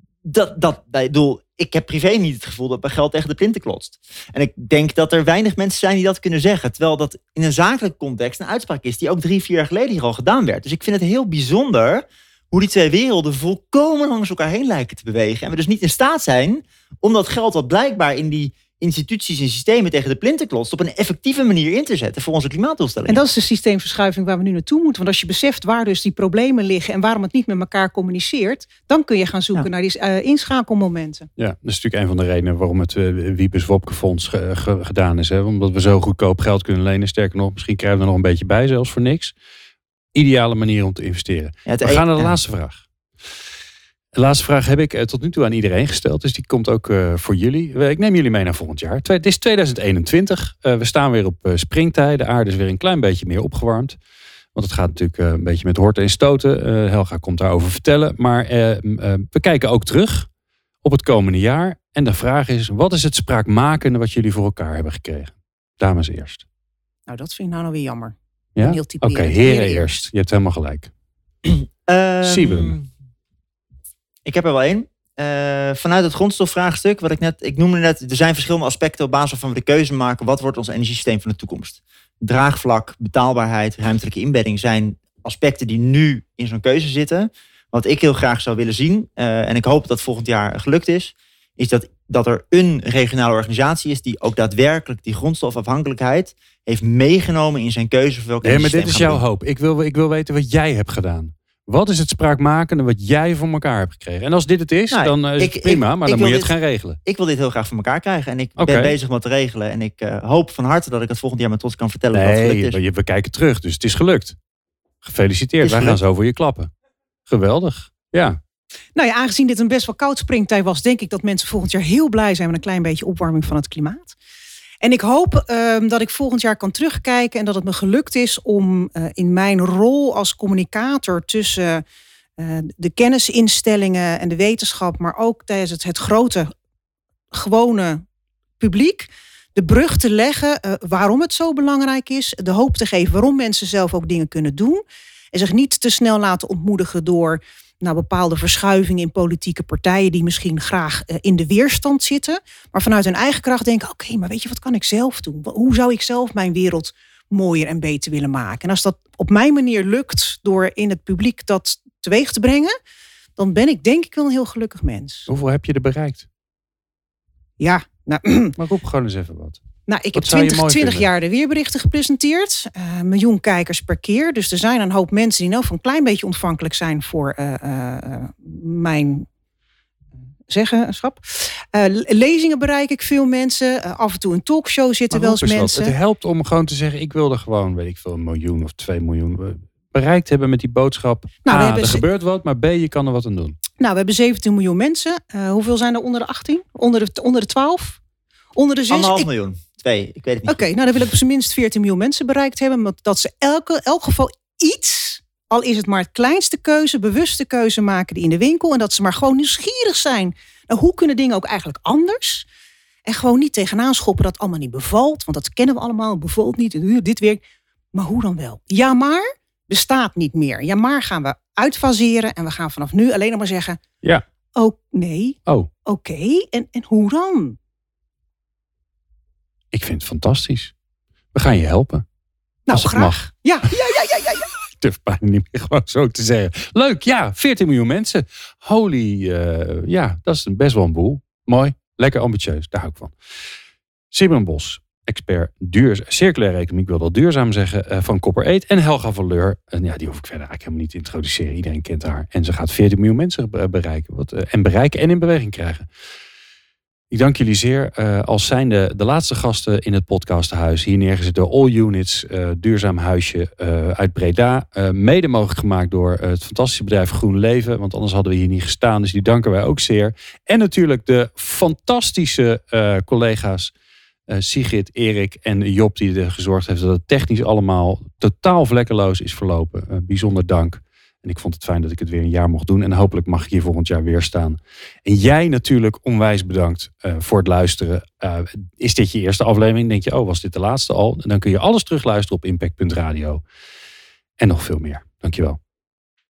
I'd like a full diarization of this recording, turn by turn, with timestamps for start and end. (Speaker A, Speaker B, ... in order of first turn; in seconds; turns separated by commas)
Speaker A: 0.2-23.2, Speaker B: 23.1-31.3, Speaker C: 31.4-39.3, Speaker C: 40.1-42.8, Speaker A: 41.6-42.4, Speaker C: 44.1-54.0, Speaker C: 54.5-60.3, Speaker C: 60.8-66.4, Speaker B: 67.1-70.1, Speaker C: 68.5-70.9, Speaker A: 71.5-72.9, Speaker C: 72.2-72.7, Speaker A: 74.2-99.2, Speaker C: 98.4-107.0, Speaker A: 104.9-106.5, Speaker A: 107.0-112.8, Speaker C: 108.6-108.9, Speaker C: 112.1-114.3, Speaker C: 115.0-116.7, Speaker A: 115.6-116.0, Speaker C: 117.3-118.4, Speaker B: 119.0-124.2, Speaker B: 124.8-131.8, Speaker B: 132.4-136.5, Speaker B: 137.3-138.0, Speaker B: 138.6-162.8, Speaker B: 163.4-165.3, Speaker C: 165.3-166.2, Speaker B: 167.6-168.6, Speaker C: 168.6-169.6, Speaker B: 169.9-179.3, Speaker C: 170.1-171.0, Speaker B: 180.5-185.9, Speaker C: 185.1-193.6, Speaker B: 191.4-192.0, Speaker B: 193.8-198.0, Speaker B: 198.6-199.3, Speaker A: 198.9-200.7, Speaker B: 200.4-212.4, Speaker B: 213.1-217.4, Speaker B: 217.9-223.8, Speaker B: 224.6-227.6, Speaker C: 229.7-230.7, Speaker C: 231.3-232.0, Speaker B: 232.7-234.5, Speaker C: 232.7-233.7, Speaker C: 234.7-243.1, Speaker C: 244.1-255.9, Speaker C: 257.1-273.7, Speaker C: 274.3-293.4, Speaker C: 294.4-295.6